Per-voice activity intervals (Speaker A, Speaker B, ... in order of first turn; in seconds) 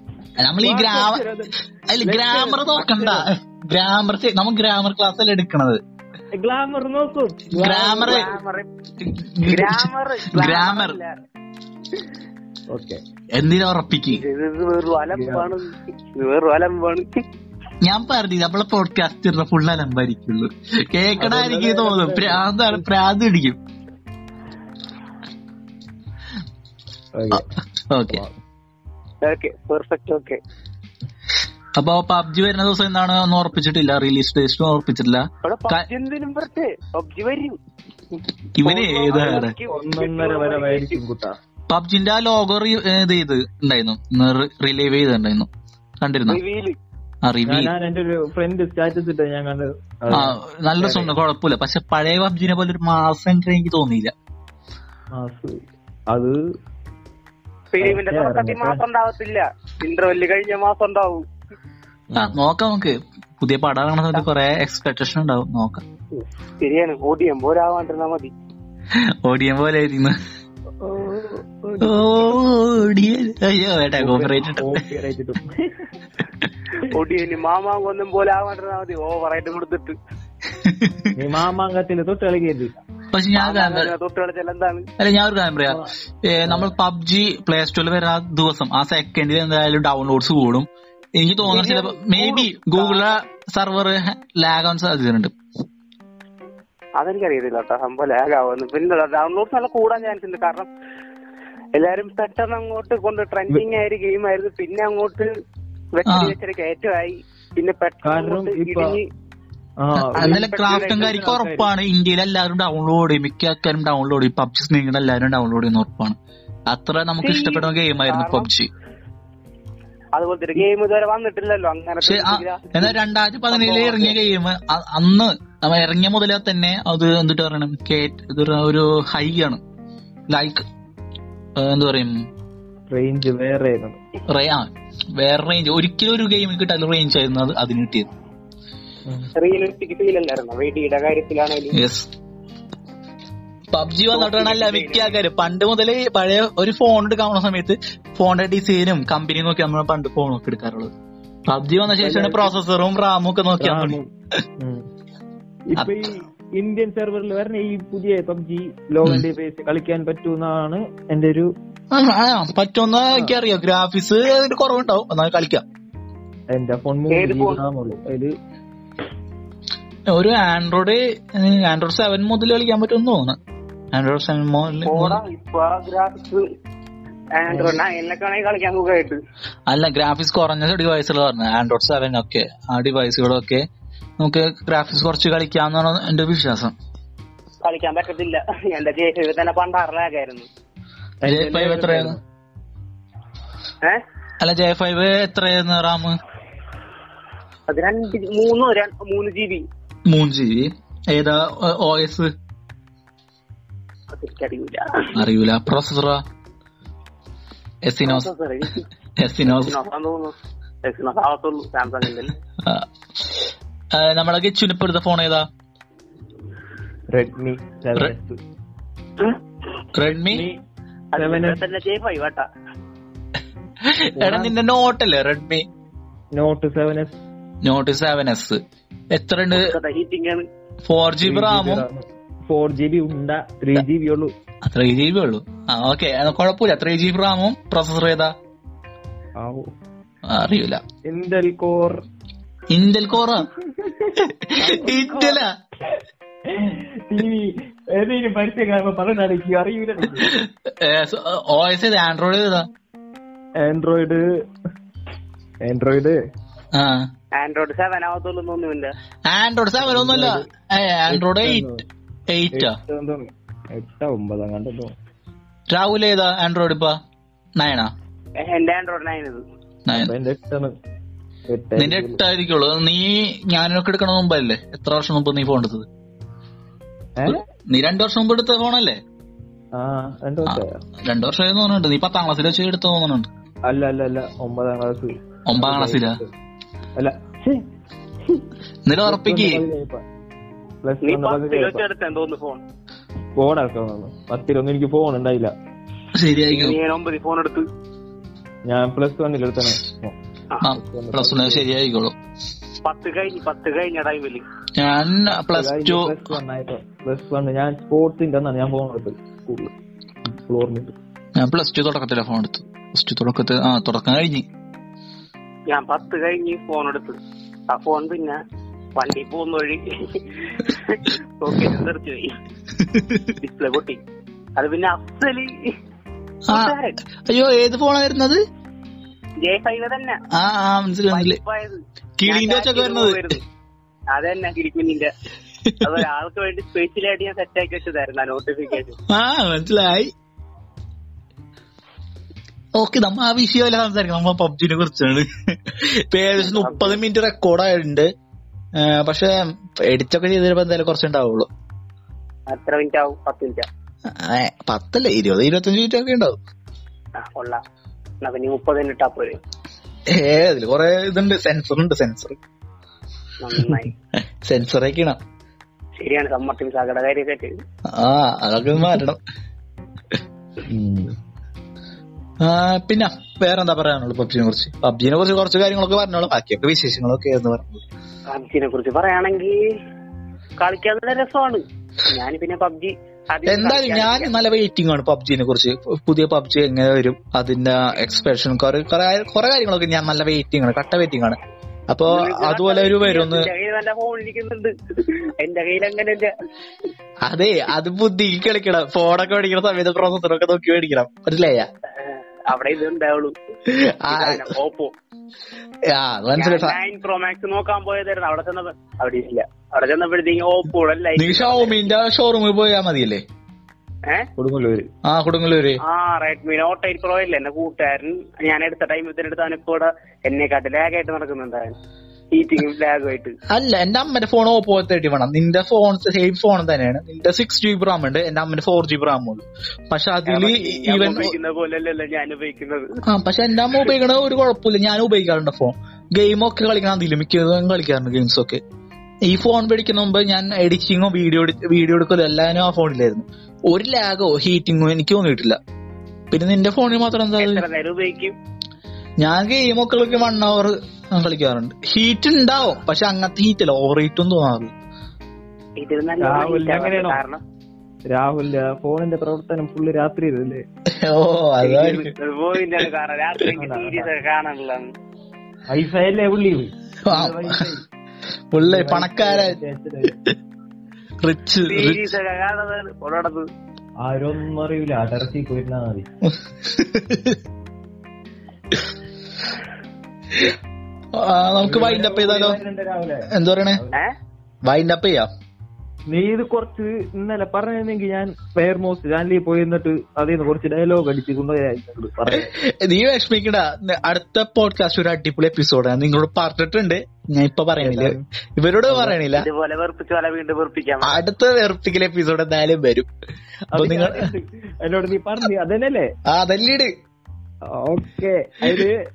Speaker A: 0.4-1.2, 1.9-5.8, 7.5-8.2, 9.0-11.0, 13.3-14.2, 17.8-23.6, 27.3-28.2, 31.8-35.9, 38.6-39.5, 41.7-45.5, 46.0-46.4, 47.2-47.7, 50.1-54.1, 62.1-65.8, 68.9-70.2, 71.8-74.8, 80.5-81.1, 83.1-83.9, 85.0-95.3, 106.0-106.3, 110.0-116.2, 116.7-118.7, 122.0-129.6, 130.3-130.6, 131.6-132.2, 134.3-138.1, 141.7-142.1, 143.7-150.9, 151.5-154.0, 155.8-156.1, 161.9-165.6, 170.1-173.4, 173.9-175.2, 179.7-183.7, 184.2-186.7, 191.2-192.2, 194.4-196.2, 200.1-202.3, 205.1-206.2, 207.8-208.3, 209.2-209.8, 212.6-215.5, 219.9-220.4, 223.8-225.7, 227.6-228.6, 229.1-229.7, 230.8-231.8, 234.6-238.3, 240.3-240.8, 242.7-243.5, 244.2-245.5, 250.2-252.7, 256.7-257.1, 259.3-261.7, 262.3-262.8, 265.7-267.0, 267.6-267.9, 269.9-270.1, 271.8-275.9, 277.2-279.0, 280.4-283.3, 285.5-286.2, 288.9-289.6, 296.1-296.8, 300.6-302.1, 304.8-306.3, 311.4-314.4, 322.7-323.3, 326.5-328.4, 330.3-331.4, 332.2-333.4, 335.6-336.0, 339.1-340.1, 342.7-348.1, 348.8-351.5, 354.1-356.4, 360.1-362.4, 364.4-365.2, 367.9-369.2, 372.4-377.8, 383.5-391.4, 391.9-393.5, 397.2-401.7, 403.7-404.5, 405.9-406.8, 411.2-413.2, 415.1-415.8, 423.5-431.3, 433.1-438.6, 439.2-445.6, 446.3-447.6, 449.2-454.7, 460.9-462.1, 467.0-467.6, 468.5-469.6, 471.2-472.1, 476.2-477.4, 481.1-482.6, 483.3-483.8, 484.6-485.3, 492.3-499.5, 501.0-503.1, 503.7-504.3, 506.3-506.9
Speaker B: 0.6-3.3, 6.3-8.4, 12.7-13.0, 15.1-15.5, 21.2-22.8, 27.1-27.5, 28.1-28.4, 39.7-41.4, 47.5-51.1, 55.1-56.4, 57.8-58.8, 62.1-62.4, 70.8-72.2, 74.0-75.9, 81.1-82.8, 86.5-86.7, 108.0-109.0, 109.8-110.4, 111.0-111.7, 132.9-134.0, 151.9-152.6, 153.6-154.9, 155.7-161.5, 166.5-168.3, 177.5-177.8, 191.2-192.2, 217.1-218.4, 220.3-220.6, 221.1-221.6, 224.2-224.6, 226.3-227.2, 231.2-234.3, 239.4-239.7, 241.1-242.0, 243.7-245.4, 246.5-250.3, 253.6-254.2, 255.6-256.2, 259.8-260.5, 261.1-261.8, 262.5-264.9, 269.9-270.7, 271.5-272.2, 277.2-277.4, 279.8-280.8, 283.7-286.3, 286.9-287.7, 289.0-290.0, 290.8-291.8, 293.4-295.5, 298.6-301.6, 305.3-309.7, 310.2-310.9, 370.7-371.1, 414.4-414.9, 456.2-457.2, 458.1-460.6, 463.6-464.1, 465.7-467.8, 468.5-470.2, 474.0-476.1, 481.6-484.0, 486.1-492.5, 497.8-498.2, 498.9-499.2, 503.7-506.1, 507.7-509.0
Speaker C: 8.0-8.7, 9.4-11.1, 14.1-17.1, 29.2-30.4, 35.4-37.6, 38.6-41.0, 46.3-46.8, 57.7-61.2, 66.1-68.3, 76.8-80.0, 83.3-84.9, 91.5-93.2, 97.0-100.7, 101.8-105.3, 105.9-109.0, 110.2-111.4, 117.2-118.5, 120.1-122.9, 123.5-124.2, 139.3-141.8, 144.1-145.2, 167.1-167.6, 174.8-176.4, 177.3-179.2, 187.6-190.5, 197.7-199.7, 204.1-205.2, 208.0-208.9, 209.4-212.3, 221.1-222.4, 229.5-230.4, 257.3-258.9, 268.4-269.4, 291.0-292.6, 296.5-297.7, 302.8-304.4, 315.7-318.4, 318.9-322.3, 323.4-324.0, 324.6-325.7, 326.5-327.0, 329.4-330.2, 331.1-333.4, 334.1-335.1, 335.8-339.0, 346.4-347.0, 352.5-353.7, 357.2-357.6, 358.2-359.4, 363.4-363.9, 365.9-367.5, 378.3-379.6, 380.6-384.3, 392.1-396.3, 402.0-403.3, 404.1-404.9, 406.4-411.8, 415.8-421.7, 422.3-423.4, 430.3-432.9, 447.4-448.4, 455.8-457.4, 461.6-464.9, 471.6-473.4, 499.3-501.2